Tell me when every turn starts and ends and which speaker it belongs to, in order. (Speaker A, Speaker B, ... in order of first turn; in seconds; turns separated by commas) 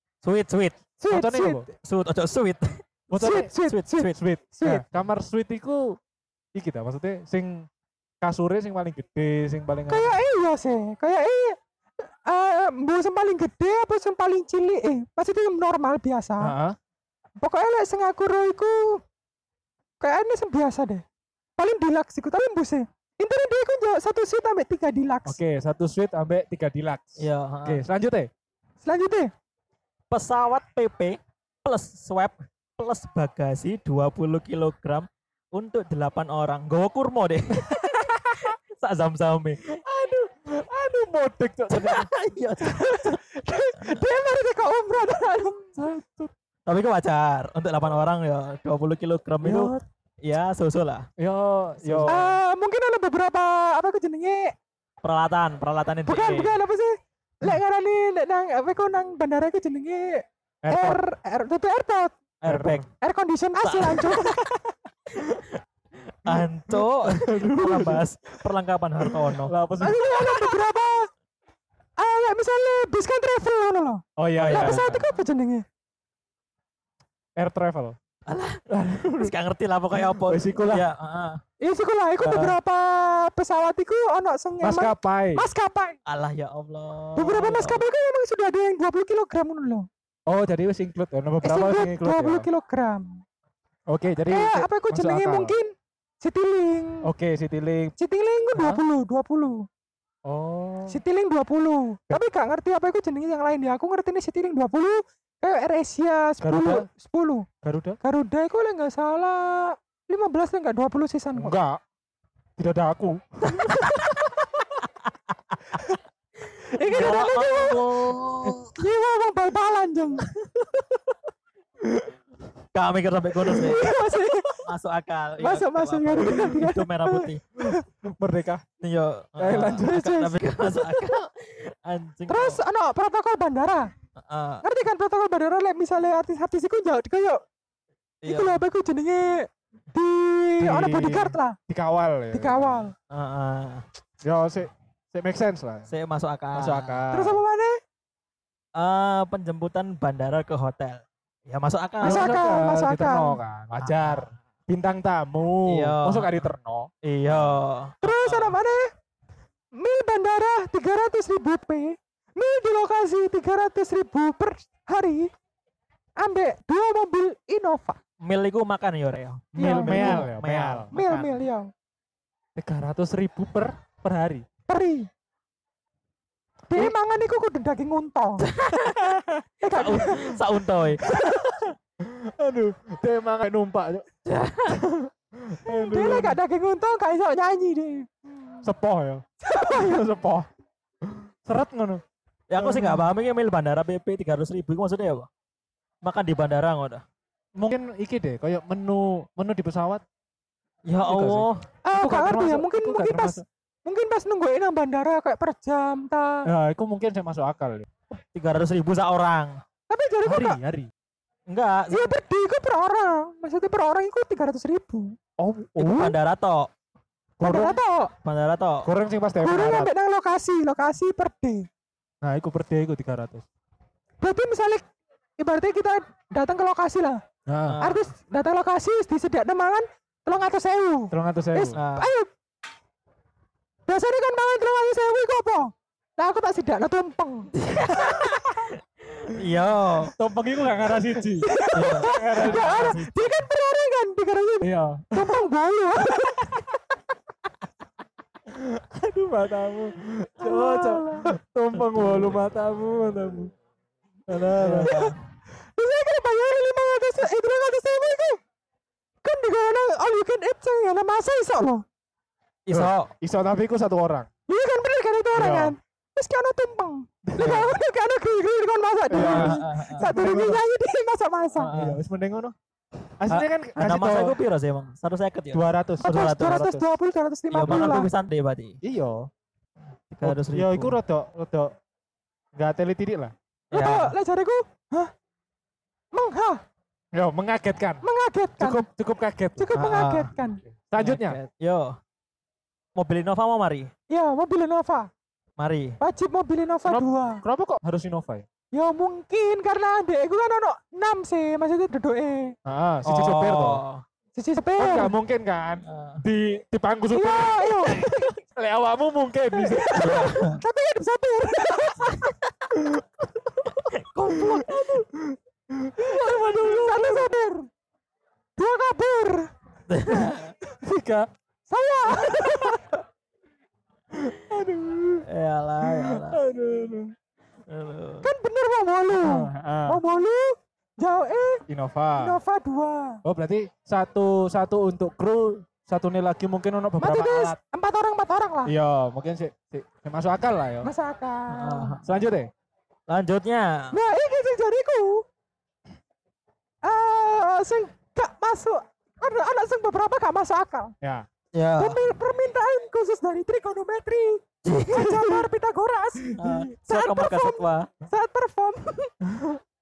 Speaker A: 0.2-0.8, Speaker B: 1.0-1.6, Speaker C: 1.1-1.7, Speaker A: 1.8-2.8, Speaker C: 3.1-3.5, Speaker B: 3.1-4.8, Speaker A: 3.6-4.2, Speaker C: 4.1-6.0, Speaker C: 6.5-7.7, Speaker C: 8.2-10.1, Speaker B: 9.9-11.6, Speaker B: 12.2-16.5, Speaker C: 16.4-16.8, Speaker B: 17.4-19.0, Speaker B: 20.0-21.0, Speaker B: 21.6-25.4, Speaker C: 25.2-28.3, Speaker A: 27.2-27.8, Speaker B: 28.8-29.3, Speaker A: 30.1-39.7, Speaker C: 39.7-42.1, Speaker A: 41.7-43.2, Speaker B: 42.7-45.7, Speaker C: 45.7-46.3, Speaker A: 46.6-51.1, Speaker C: 49.4-49.8, Speaker C: 51.2-52.3, Speaker A: 51.8-52.2, Speaker B: 52.1-54.5, Speaker A: 55.0-56.5, Speaker B: 56.1-62.2, Speaker C: 60.6-61.0, Speaker A: 62.4-62.9, Speaker C: 62.5-62.9, Speaker B: 63.0-64.6, Speaker A: 63.6-64.4, Speaker A: 65.2-65.5, Speaker A: 66.1-69.5, Speaker C: 66.3-68.0, Speaker C: 69.0-70.0, Speaker B: 69.8-71.1, Speaker B: 72.0-75.6, Speaker C: 74.2-75.0, Speaker A: 74.4-75.0, Speaker C: 77.4-78.0, Speaker A: 78.3-81.4, Speaker C: 78.7-79.3, Speaker C: 79.9-80.9, Speaker B: 81.6-86.0, Speaker A: 82.2-82.6, Speaker C: 84.6-85.5, Speaker A: 86.0-87.8, Speaker B: 87.2-89.9, Speaker C: 90.3-92.5, Speaker B: 91.4-93.2, Speaker C: 93.9-95.5, Speaker B: 94.3-97.1, Speaker C: 97.0-97.9, Speaker B: 98.0-99.7, Speaker C: 100.2-101.0, Speaker B: 100.9-107.5, Speaker C: 106.4-106.9, Speaker C: 107.6-108.0, Speaker B: 108.0-111.5, Speaker C: 111.3-111.8, Speaker C: 112.6-113.8, Speaker A: 113.5-114.3, Speaker B: 116.6-117.9, Speaker A: 116.7-118.7, Speaker B: 118.8-120.3, Speaker A: 122.7-123.9, Speaker B: 123.4-124.6, Speaker A: 124.6-127.4, Speaker B: 125.4-127.8, Speaker C: 128.0-128.6, Speaker A: 128.8-132.6, Speaker C: 129.4-130.0, Speaker B: 129.8-130.4, Speaker B: 132.3-133.9, Speaker A: 134.2-134.6, Speaker B: 134.6-137.4, Speaker A: 138.2-138.6, Speaker B: 138.2-141.6, Speaker C: 140.6-142.8, Speaker B: 142.3-142.9, Speaker A: 143.1-143.8, Speaker C: 144.2-145.9, Speaker A: 145.9-147.0, Speaker C: 146.5-147.4, Speaker B: 147.1-147.8, Speaker A: 148.8-152.4, Speaker C: 152.0-157.4, Speaker B: 152.0-153.4, Speaker A: 153.8-154.2, Speaker A: 155.7-156.5, Speaker A: 157.0-158.6, Speaker B: 158.0-158.9, Speaker B: 159.8-165.3, Speaker B: 166.2-168.0, Speaker A: 168.2-171.4, Speaker C: 169.5-170.9, Speaker B: 169.6-170.3, Speaker B: 170.9-171.7, Speaker C: 172.6-174.4, Speaker B: 174.7-175.1, Speaker B: 176.7-178.5, Speaker A: 178.4-179.2, Speaker B: 179.6-180.4, Speaker A: 179.7-181.7, Speaker C: 182.0-184.1, Speaker A: 184.2-184.8, Speaker C: 184.6-186.4, Speaker B: 185.7-188.1, Speaker C: 188.6-190.5, Speaker B: 189.4-190.0, Speaker C: 191.1-192.0, Speaker A: 192.5-195.3, Speaker C: 192.6-193.1, Speaker A: 196.0-197.0, Speaker C: 197.6-200.0, Speaker A: 200.8-201.6, Speaker C: 201.0-203.4, Speaker B: 201.8-206.5, Speaker C: 206.4-207.9, Speaker A: 208.1-209.6, Speaker B: 209.9-210.6, Speaker C: 210.2-210.9, Speaker A: 211.5-212.2, Speaker B: 211.9-215.1, Speaker C: 215.4-216.2, Speaker A: 215.8-216.7, Speaker C: 217.4-217.8, Speaker B: 217.4-218.1, Speaker A: 218.2-218.9, Speaker C: 218.8-219.9, Speaker B: 219.4-221.7, Speaker C: 222.2-223.4, Speaker B: 224.2-224.8, Speaker B: 225.4-227.2, Speaker C: 227.5-227.8, Speaker A: 227.7-228.1, Speaker B: 227.8-232.3, Speaker C: 231.1-231.8, Speaker A: 231.7-232.1, Speaker B: 233.9-238.3, Speaker A: 237.5-240.1, Speaker C: 240.1-243.0, Speaker B: 241.4-246.5, Speaker A: 241.7-243.4, Speaker C: 244.6-245.4, Speaker C: 248.5-253.5, Speaker A: 250.5-251.1, Speaker B: 250.5-251.2, Speaker A: 251.9-252.3, Speaker C: 254.3-254.9, Speaker A: 254.5-255.2, Speaker B: 254.8-255.1, Speaker B: 255.8-258.4, Speaker B: 259.2-261.8, Speaker A: 262.6-263.1, Speaker C: 262.7-264.3, Speaker B: 264.5-271.7, Speaker C: 265.3-265.8, Speaker C: 267.2-267.7, Speaker C: 269.1-270.6, Speaker A: 269.1-270.1, Speaker A: 271.6-272.0, Speaker C: 271.7-272.5, Speaker C: 273.2-274.4, Speaker A: 273.3-276.7, Speaker C: 275.5-276.9, Speaker B: 276.0-278.1, Speaker A: 277.5-278.8, Speaker C: 278.8-279.3, Speaker A: 280.1-281.0, Speaker C: 280.2-281.7, Speaker C: 282.6-283.3, Speaker A: 283.7-284.1, Speaker B: 283.7-285.1, Speaker B: 286.1-286.6, Speaker C: 287.1-288.0, Speaker B: 288.0-288.9, Speaker C: 288.6-289.7, Speaker B: 289.6-290.6, Speaker A: 289.7-290.3, Speaker C: 290.7-291.4, Speaker A: 291.0-292.0, Speaker A: 292.9-293.9, Speaker B: 294.1-295.1, Speaker A: 295.6-296.0, Speaker B: 296.0-297.4, Speaker C: 296.9-298.4, Speaker B: 298.7-302.6, Speaker C: 302.6-303.8, Speaker A: 303.0-304.0, Speaker B: 304.4-305.1, Speaker C: 304.8-310.3, Speaker A: 305.9-306.2, Speaker B: 307.1-308.3, Speaker B: 309.5-312.3, Speaker A: 309.9-310.6, Speaker C: 312.7-317.4, Speaker A: 313.9-315.0, Speaker B: 316.1-317.7, Speaker B: 318.6-319.5, Speaker A: 319.9-320.5, Speaker C: 320.8-321.3, Speaker B: 321.7-322.8, Speaker C: 324.1-325.2, Speaker A: 325.2-326.4, Speaker C: 325.8-327.1, Speaker A: 327.7-328.3, Speaker B: 328.2-331.6, Speaker C: 329.1-330.0, Speaker C: 331.7-332.4, Speaker B: 332.2-333.2, Speaker C: 333.2-337.6, Speaker B: 337.0-338.7, Speaker C: 338.6-340.9, Speaker B: 340.8-342.0, Speaker A: 341.5-342.0, Speaker C: 342.0-342.5, Speaker A: 343.1-344.0, Speaker B: 343.9-345.2, Speaker B: 346.8-350.9, Speaker C: 351.0-351.3, Speaker A: 351.5-352.0, Speaker B: 351.8-359.1, Speaker A: 354.6-355.2, Speaker C: 355.1-355.4, Speaker A: 356.4-357.9, Speaker C: 359.2-359.6